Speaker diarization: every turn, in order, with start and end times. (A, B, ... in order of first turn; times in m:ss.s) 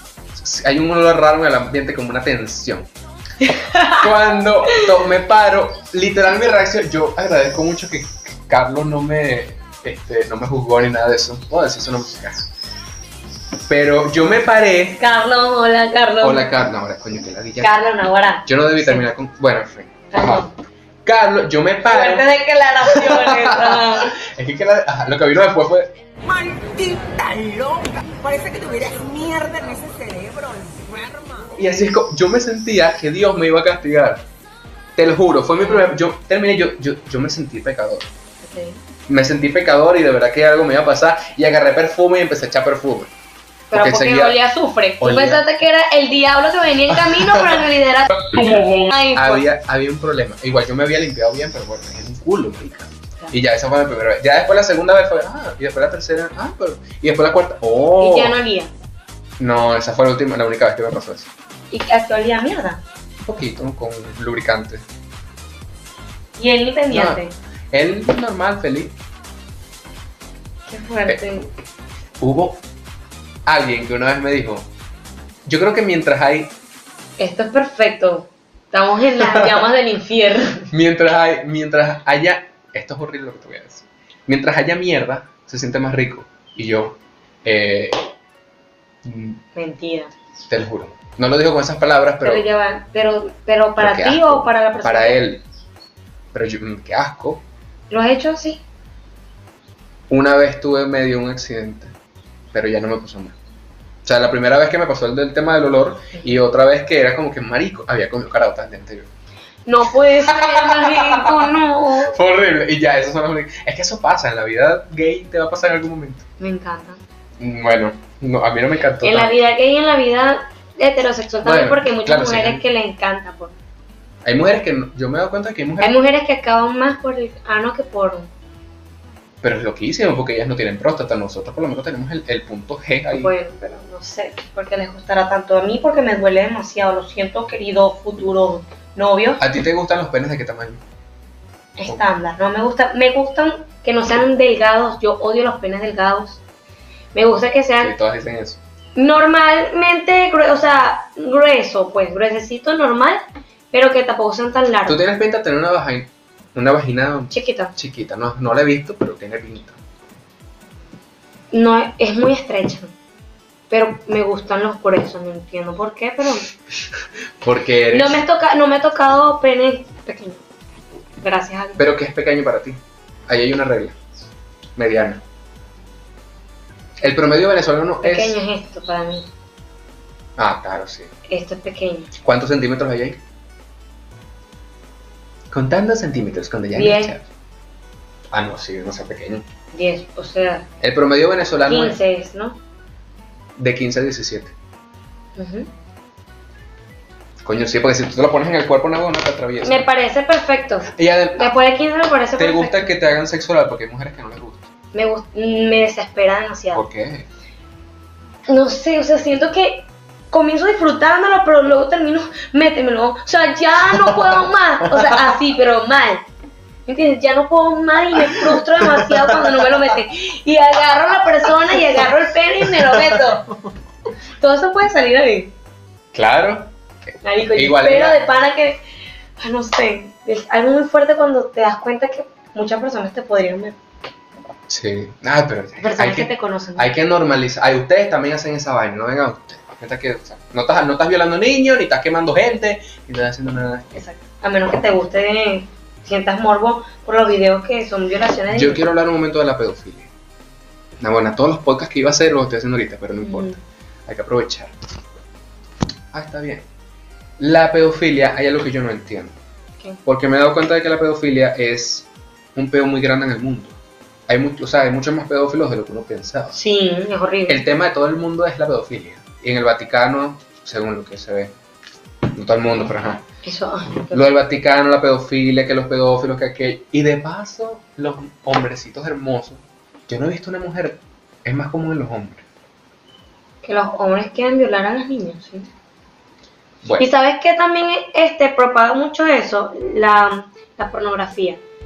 0:00.3-0:02.9 A
0:03.4-0:04.0 B
0:03.8-0:12.5 A
0:13.7-0:15.0 A
0:15.0-0:16.5 B
0:16.2-0:17.7 A
0:17.6-0:19.1 B
0:18.4-0:20.5 A
0:20.1-0:20.5 B
0:21.0-0:22.3 A
0:21.8-0:24.1 B
0:22.8-0:25.9 A
0:26.2-0:31.5 C
0:31.6-0:34.2 A
0:35.0-0:38.1 A
0:35.6-0:35.9 B
0:38.4-0:38.8 B
0:39.1-0:43.1 A
0:43.7-0:49.4 B
0:43.7-0:44.4 A
0:45.0-0:45.4 A
0:46.9-0:47.6 A
0:49.1-0:58.4 A
0:58.0-0:58.7 B
0:59.4-1:01.3 A
1:01.7-1:02.8 B
1:03.2-1:04.8 A
1:06.4-1:07.3 B
1:06.9-1:09.0 A
1:10.7-1:11.5 B
1:12.2-1:12.6 A
1:13.4-1:14.7 A
1:15.4-1:16.5 A
1:17.2-1:20.7 B
1:19.2-1:19.6 A
1:20.7-1:28.1 A
1:29.0-1:29.4 A
1:29.5-1:30.1 B
1:30.5-1:32.5 A
1:32.2-1:35.2 B
1:33.8-1:35.4 A
1:36.3-1:37.4 A
1:37.9-1:38.6 B
1:40.1-1:41.9 A
1:42.5-1:43.4 A
1:44.0-1:49.1 A
1:49.6-1:52.2 B
1:50.3-1:56.2 A
1:56.4-1:57.0 B
1:57.4-1:59.4 A
1:59.0-2:03.5 B
2:01.4-2:02.6 A
2:04.2-2:06.0 A
2:05.8-2:08.3 B
2:09.4-2:13.3 A
2:13.2-2:19.4 B
2:19.4-2:20.8 A
2:21.8-2:26.4 B
2:27.1-2:27.9 B
2:27.8-2:28.6 A
2:29.0-2:33.2 B
2:33.7-2:35.0 B
2:34.8-2:39.8 A
2:37.3-2:37.7 B
2:41.5-2:42.9 B
2:43.7-2:46.5 B
2:47.4-2:48.2 A
2:47.9-2:50.4 B
2:51.2-2:51.9 B
2:51.8-2:54.0 A
2:54.8-2:55.2 A
2:57.0-2:58.4 A
2:58.0-2:59.3 B
3:00.4-3:01.1 A
3:01.3-3:02.1 B
3:02.2-3:03.2 A
3:05.5-3:07.2 A
3:06.7-3:07.2 B
3:08.3-3:09.4 A
3:09.7-3:10.7 B
3:10.8-3:12.0 A
3:11.6-3:12.6 B
3:13.6-3:14.5 A
3:15.4-3:15.7 B
3:17.4-3:19.8 A
3:19.6-3:22.9 B
3:20.9-3:21.5 A
3:22.4-3:24.7 A
3:24.9-3:26.8 B
3:26.7-3:27.3 A
3:28.5-3:36.2 B
3:33.9-3:35.3 A
3:36.8-3:43.5 B
3:38.3-3:39.8 A
3:41.7-3:42.0 A
3:42.6-3:43.4 A
3:44.4-3:45.5 B
3:46.1-3:46.7 A
3:47.2-3:48.8 B
3:47.5-3:48.2 A
3:49.4-3:53.8 B
3:54.7-4:04.0 A
3:55.8-3:56.9 B
4:03.9-4:08.8 B
4:08.5-4:10.1 A
4:11.0-4:13.5 A
4:13.2-4:13.6 B
4:14.0-4:14.7 A
4:16.1-4:16.6 A
4:17.4-4:19.4 A
4:20.0-4:23.8 A
4:24.3-4:26.6 A
4:26.5-4:27.6 B
4:27.5-4:31.5 A
4:32.3-4:33.2 A
4:33.4-4:34.3 B
4:34.1-4:42.4 A
4:43.6-4:45.7 B
4:47.0-4:51.6 B